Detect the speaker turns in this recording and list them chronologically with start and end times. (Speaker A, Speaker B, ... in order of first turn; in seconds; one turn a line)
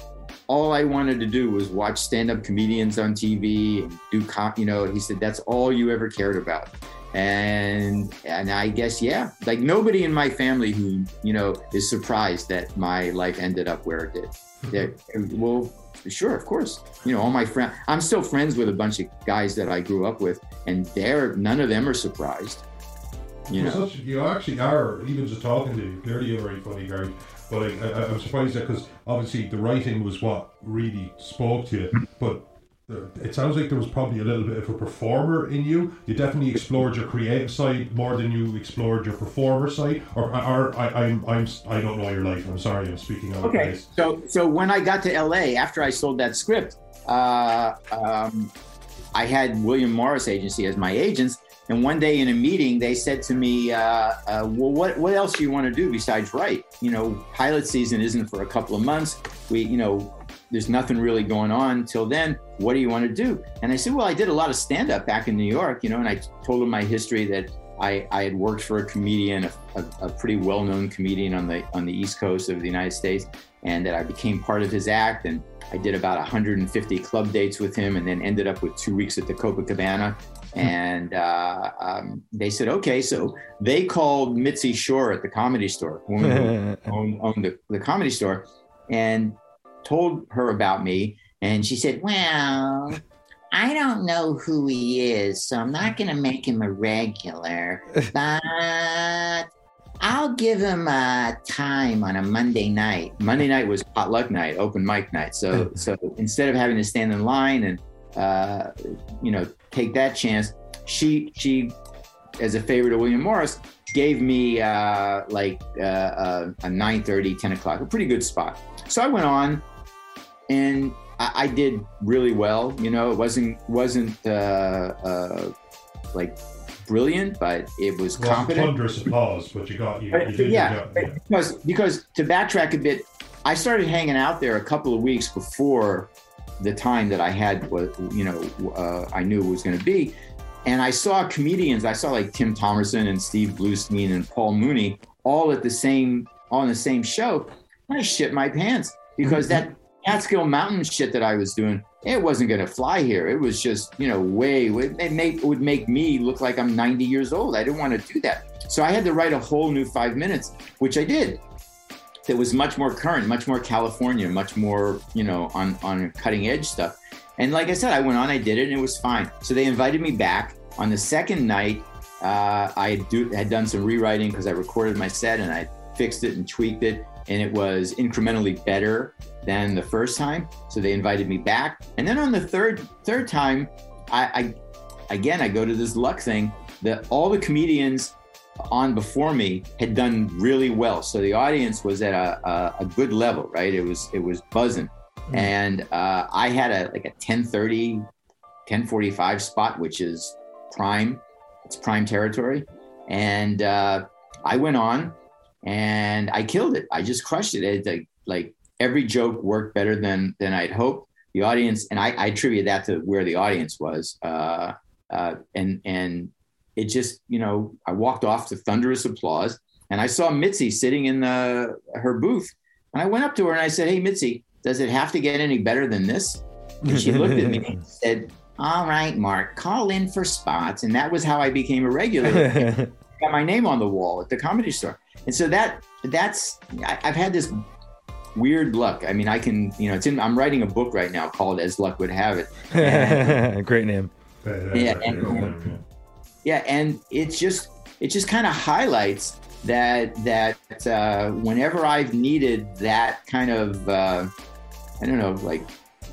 Speaker A: 0.5-22.6
Speaker A: 23.5-23.8
Speaker B: 23.5-43.8
Speaker A: 43.4-48.5
Speaker A: 49.1-93.0
Speaker C: 86.3-86.8
Speaker A: 93.5-99.5
Speaker A: 100.0-111.7
Speaker A: 112.4-119.6
Speaker A: 120.5-125.5
Speaker A: 126.1-128.7
Speaker B: 128.2-131.2
Speaker A: 130.1-140.1
Speaker A: 140.7-161.4
Speaker A: 162.3-184.5
Speaker A: 185.1-188.1
Speaker A: 188.7-198.1
Speaker A: 198.7-237.6
Speaker C: 226.8-227.6
Speaker C: 232.3-232.9
Speaker A: 238.3-243.4
Speaker C: 242.7-244.1
Speaker B: 244.4-245.8
Speaker A: 244.7-245.5
Speaker A: 246.4-254.3
Speaker A: 255.0-255.7